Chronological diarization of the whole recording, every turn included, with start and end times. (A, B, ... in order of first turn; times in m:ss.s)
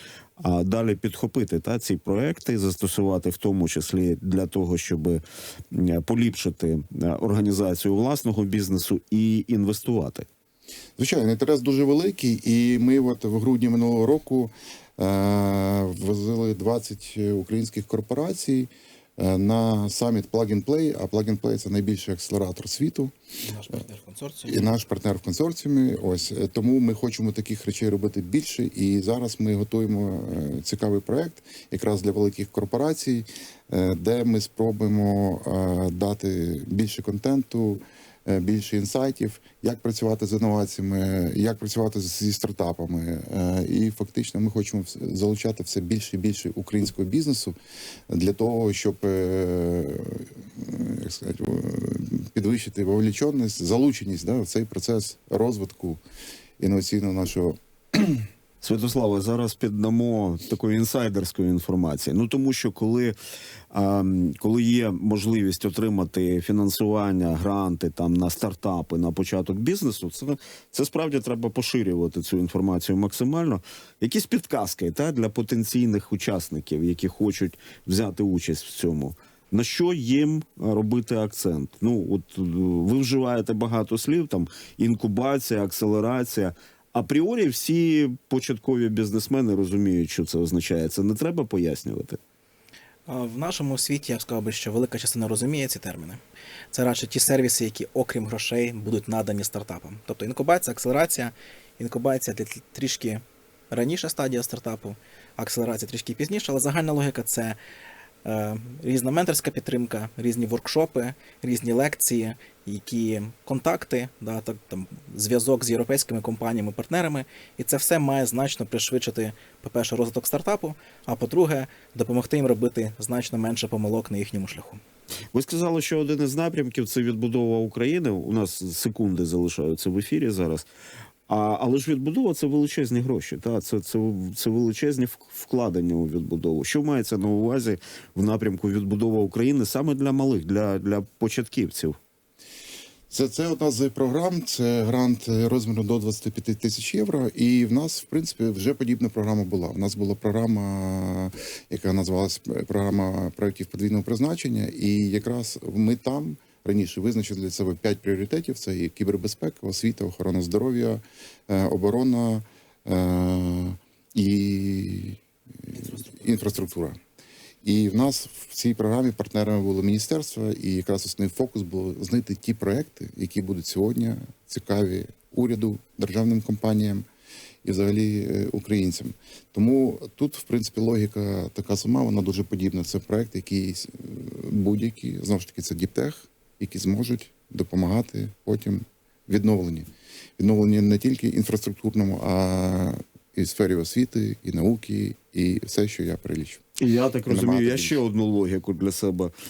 0:00.4-0:10.3 A
0:11.0-0:23.1 B
0:23.4-0:24.7 C
0:24.4-0:47.5 B
0:48.1-0:56.0 B
0:56.6-0:58.3 B
0:58.6-1:03.2 A
1:03.7-1:32.2 A
1:33.1-1:36.2 C
1:36.7-1:47.6 C
1:48.2-2:04.8 C
2:05.3-2:10.7 A
2:11.3-2:22.0 A
2:23.1-2:47.0 B
2:45.7-2:46.5 C
2:47.6-2:57.0 B
2:57.6-3:16.6 B
3:16.8-3:19.3 A
3:17.3-3:18.0 B